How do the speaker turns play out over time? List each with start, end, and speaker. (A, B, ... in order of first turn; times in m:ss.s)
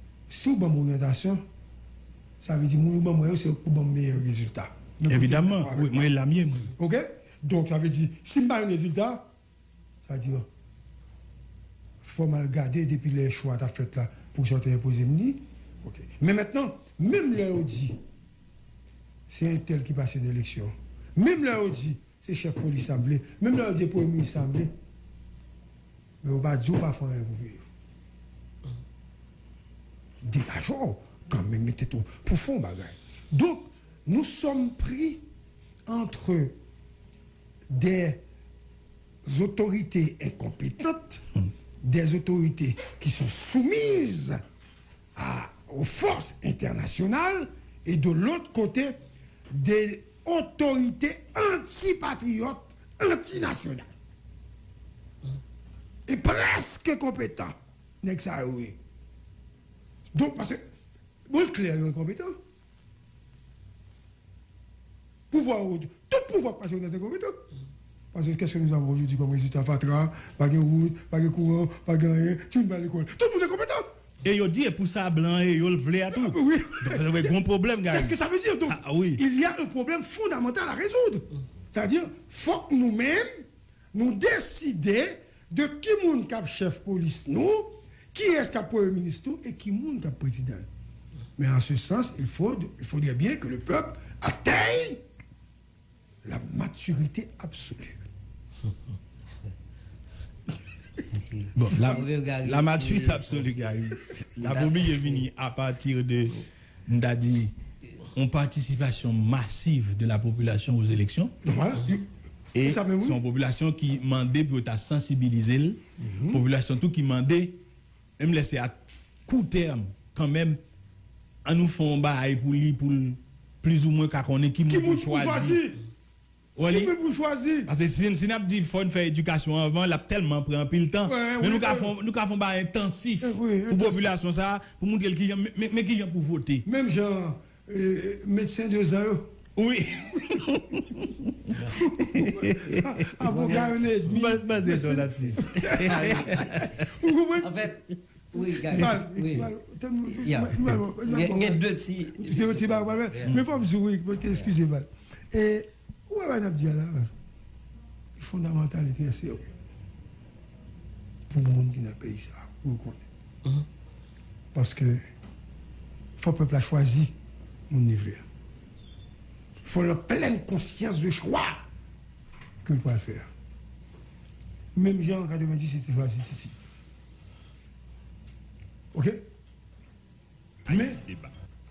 0:00.3-0:01.4 A
0:02.4-0:06.1 A
0:05.1-0:06.7 B
0:06.8-0:09.3 A
0:10.0-0:10.5 A
0:12.0-0:18.0 A
0:19.3-0:24.7 A
0:26.2-0:27.7 A
0:30.2-0:35.2 A
0:35.8-0:36.6 A
0:37.7-0:38.2 A
0:39.2-0:41.2 A
0:41.8-0:44.4 A
0:45.2-0:49.0 A
0:49.5-0:53.9 A
0:56.1-0:58.8 A
1:00.1-1:00.6 A
1:01.3-1:02.4 A
1:05.3-1:07.4 A
1:08.1-1:13.9 A
1:14.2-1:19.2 B
1:16.1-1:30.7 A
1:31.4-1:35.0 A
1:36.2-1:38.0 A
1:41.1-1:43.8 C
1:41.6-1:47.5 B
1:44.4-1:45.2 C
1:48.1-1:51.3 B
1:51.4-1:52.1 A
1:52.5-1:57.6 B
1:52.6-1:53.2 A
1:56.0-1:56.4 A
1:58.2-2:00.6 B
2:01.4-2:05.6 B
2:04.7-2:05.8 A
2:06.6-2:06.9 B
2:06.7-2:07.7 A
2:07.7-2:16.7 B
2:11.0-2:11.9 A
2:13.2-2:14.1 A
2:16.6-2:19.3 A
2:19.6-2:26.8 B
2:21.9-2:27.8 A
2:25.6-2:26.2 C
2:27.4-2:29.5 C
2:28.6-2:31.6 A
2:30.0-2:33.4 C
2:32.2-2:37.1 A
2:38.2-2:39.5 A
2:41.3-2:43.0 A
2:44.5-2:45.0 A
2:46.2-2:47.1 A
2:47.7-2:48.2 A
2:49.6-2:51.6 A
2:52.6-2:53.3 A
2:54.7-2:56.6 A
2:58.9-2:59.2 A
3:00.6-3:01.1 A